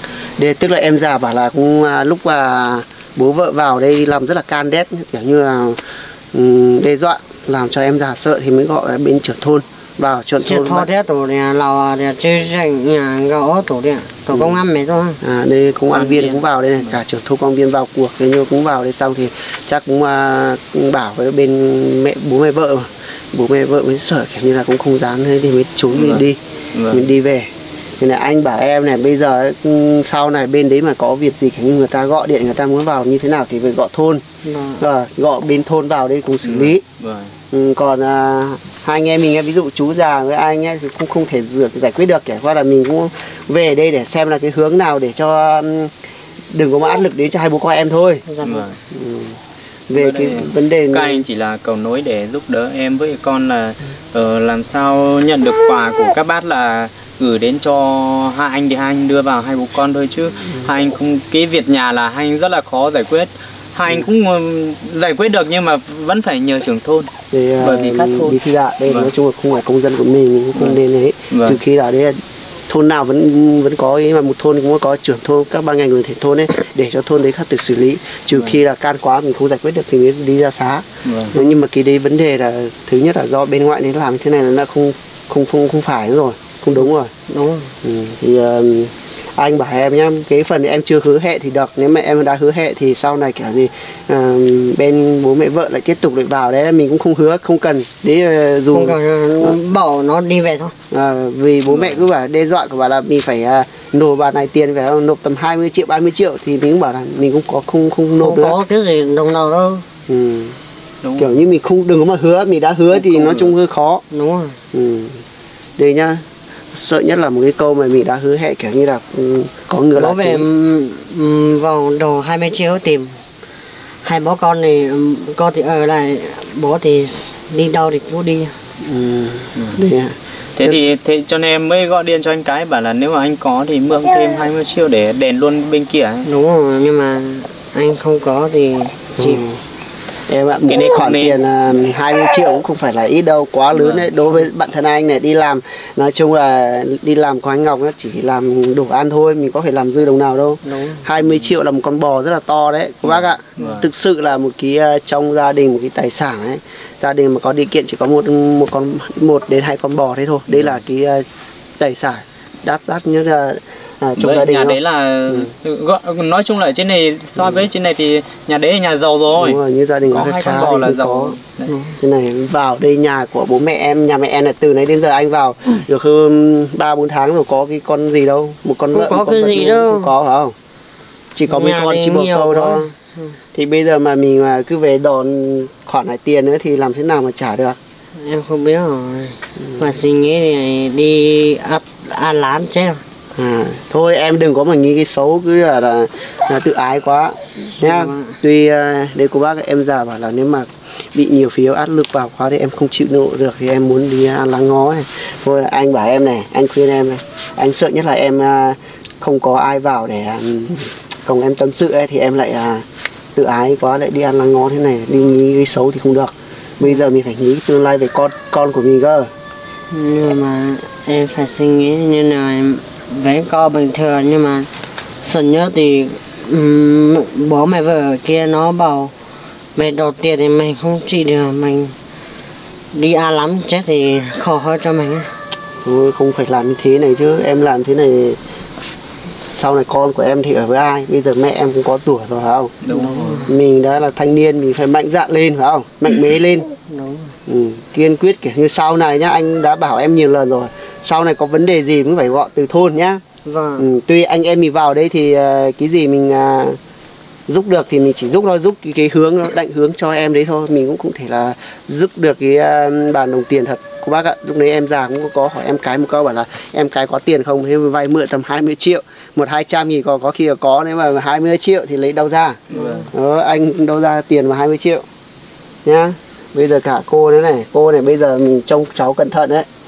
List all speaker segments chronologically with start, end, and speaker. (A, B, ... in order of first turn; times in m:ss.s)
0:00.4-0:10.9 A
0:10.4-0:15.2 B
0:14.3-0:14.6 A
0:15.2-0:34.2 A
0:15.9-0:17.0 C
0:25.9-0:26.2 C
0:26.7-0:27.1 C
0:34.4-0:34.8 B
0:34.8-0:36.8 A
0:36.4-0:37.3 C
0:37.5-0:45.9 A
0:46.5-0:48.2 A
0:48.3-0:48.7 B
0:48.4-0:48.8 C
0:48.9-0:51.2 A
0:49.9-1:09.1 C
1:07.3-1:27.1 A
1:10.6-1:10.8 C
1:11.3-1:11.6 C
1:18.3-1:18.6 C
1:21.0-1:21.4 C
1:27.3-1:27.8 B
1:27.8-1:39.6 A
1:38.7-1:40.8 B
1:40.9-1:48.6 A
1:41.7-1:42.0 C
1:48.2-1:49.9 B
1:50.1-1:50.6 A
1:51.0-1:51.4 C
1:51.2-1:54.0 A
1:53.0-1:53.4 B
1:54.1-1:54.6 B
1:54.7-1:55.2 A
1:55.8-2:00.5 A
1:59.9-2:03.2 B
2:04.0-2:08.6 B
2:08.8-2:10.8 A
2:09.6-2:09.8 C
2:10.6-2:16.3 C
2:16.2-2:19.4 B
2:19.2-2:19.6 A
2:20.3-2:41.2 A
2:20.7-2:21.4 C
2:23.7-2:24.1 C
2:30.6-2:31.1 B
2:33.1-2:33.9 C
2:40.5-2:40.8 C
2:41.8-2:45.5 A
2:44.2-2:51.7 C
2:47.4-2:47.6 A
2:49.3-2:51.4 A
2:51.7-2:52.0 B
2:52.0-3:00.6 A
2:58.9-3:00.1 B
3:01.4-3:02.9 A
3:01.5-3:03.4 B
3:03.5-3:07.8 A
3:08.2-3:13.0 B
3:13.4-3:39.3 A
3:17.8-3:18.4 B
3:39.9-3:44.7 B
3:45.2-3:49.1 B
3:49.8-3:52.0 B
3:52.9-3:55.3 B
3:55.8-3:58.4 A
3:59.5-4:02.8 A
4:02.8-4:03.5 C
4:02.9-4:03.5 B
4:03.5-4:06.7 A
4:06.9-4:07.4 B
4:07.5-4:13.2 A
4:13.4-4:13.9 B
4:13.8-4:16.8 A
4:17.5-4:35.0 A
4:32.7-4:33.1 C
4:32.7-4:33.1 B
4:35.8-4:39.7 A